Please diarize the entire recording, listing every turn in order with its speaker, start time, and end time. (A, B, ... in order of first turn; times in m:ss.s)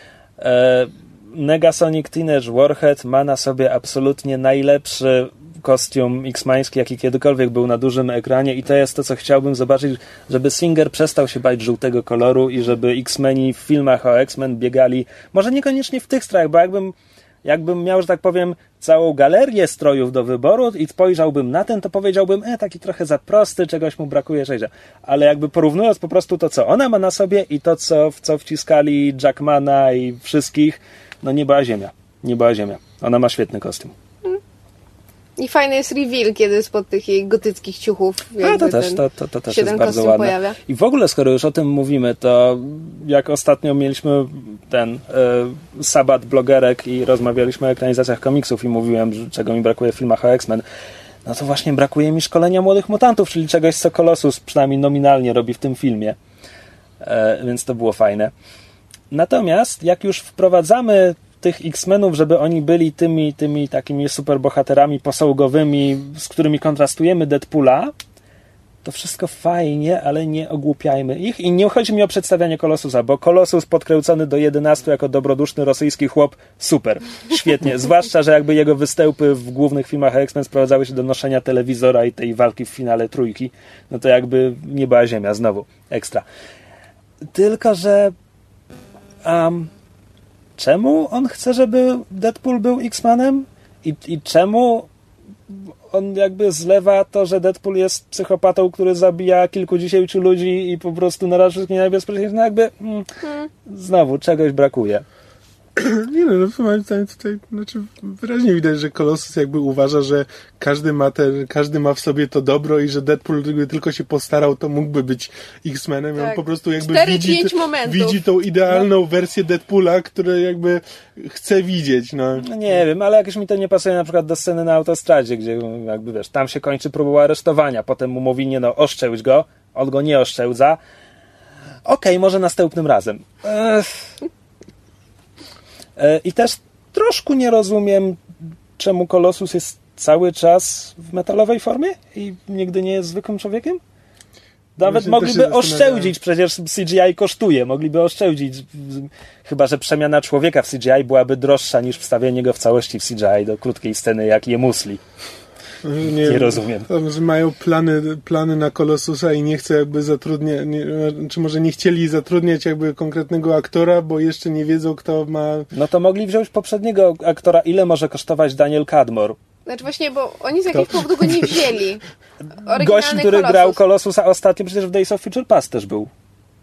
0:00.4-0:33.9 A
0:35.4-0:40.6 B
0:38.4-0:50.6 A
0:51.2-0:56.2 A
0:57.0-0:58.3 A
0:59.1-1:07.9 A
1:08.8-1:26.2 A
1:27.2-1:28.1 A
1:29.2-1:29.7 A
1:30.6-1:34.9 A
1:35.5-1:45.0 A
1:43.2-1:43.5 B
1:45.8-2:02.5 C
1:56.2-1:58.2 B
2:02.4-2:10.8 A
2:11.8-2:14.1 A
2:16.0-2:18.2 A
2:18.8-2:23.8 A
2:24.8-2:35.0 A
2:24.8-2:26.1 C
2:35.8-2:45.7 C
2:36.2-2:36.9 A
2:45.7-2:49.4 A
2:49.7-2:52.0 B
2:52.6-2:53.8 B
2:52.7-2:56.1 A